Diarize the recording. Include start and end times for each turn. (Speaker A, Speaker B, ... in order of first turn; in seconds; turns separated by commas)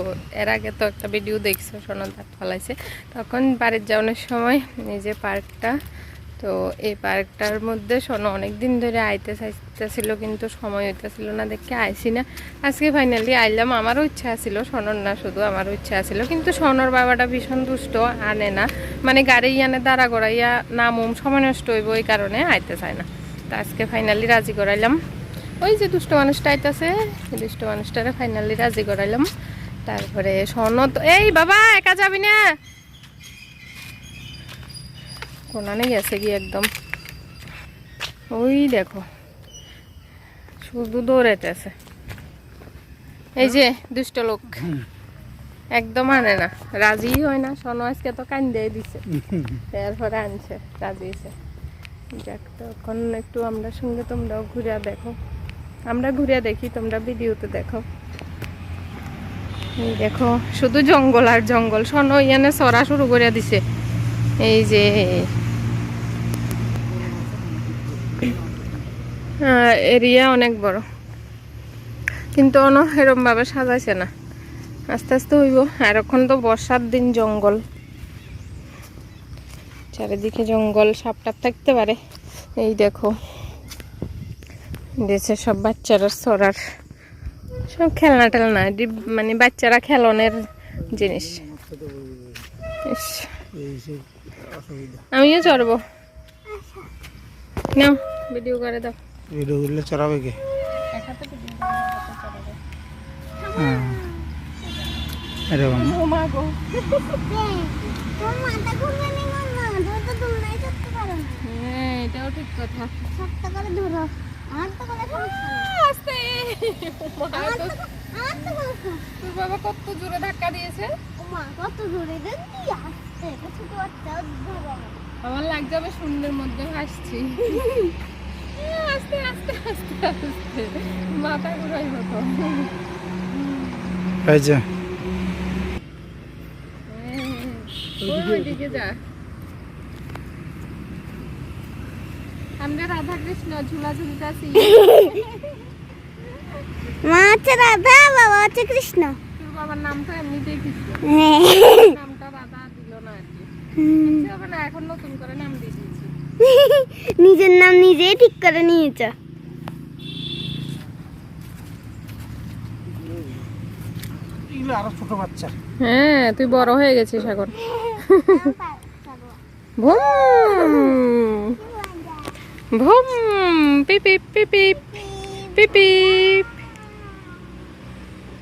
Speaker A: 0.4-5.7, Speaker A: 6.4-25.0, Speaker A: 25.6-29.2, Speaker A: 29.9-32.4, Speaker A: 35.5-36.7, Speaker A: 38.3-39.0, Speaker A: 40.6-41.7, Speaker A: 43.4-44.7, Speaker A: 45.8-49.0, Speaker A: 49.7-51.3, Speaker A: 52.1-55.1, Speaker A: 55.9-57.8, Speaker A: 59.8-63.6, Speaker A: 64.4-65.3, Speaker B: 66.9-68.7, Speaker A: 69.4-70.8, Speaker A: 72.3-74.1, Speaker A: 74.9-77.6, Speaker A: 79.9-82.0, Speaker A: 82.6-83.1, Speaker A: 85.0-86.6, Speaker A: 87.7-91.5, Speaker B: 91.0-92.3, Speaker A: 92.8-93.3, Speaker B: 93.5-95.0, Speaker A: 95.1-95.8, Speaker C: 96.5-96.9, Speaker A: 97.7-99.0, Speaker B: 99.3-100.4, Speaker A: 100.9-102.6, Speaker C: 103.4-105.0, Speaker B: 103.6-104.0, Speaker B: 105.5-106.0, Speaker A: 105.6-107.2, Speaker C: 107.3-111.4, Speaker A: 111.4-112.9, Speaker C: 113.1-115.7, Speaker A: 115.6-117.8, Speaker C: 117.3-119.0, Speaker A: 119.2-120.9, Speaker C: 121.2-125.0, Speaker A: 125.2-127.6, Speaker C: 127.4-127.9, Speaker A: 128.5-132.7, Speaker B: 134.2-134.7, Speaker A: 136.9-139.0, Speaker B: 138.0-138.7, Speaker A: 142.6-145.4, Speaker C: 144.8-145.2, Speaker C: 147.0-149.2, Speaker A: 149.4-156.1, Speaker C: 151.1-151.9, Speaker C: 153.8-154.3, Speaker C: 156.4-159.1, Speaker B: 164.5-165.5, Speaker A: 165.8-168.5, Speaker C: 167.6-169.4, Speaker A: 169.8-171.6, Speaker C: 169.9-170.9, Speaker C: 171.5-172.3, Speaker A: 172.7-176.6, Speaker C: 174.9-175.9, Speaker C: 177.0-177.3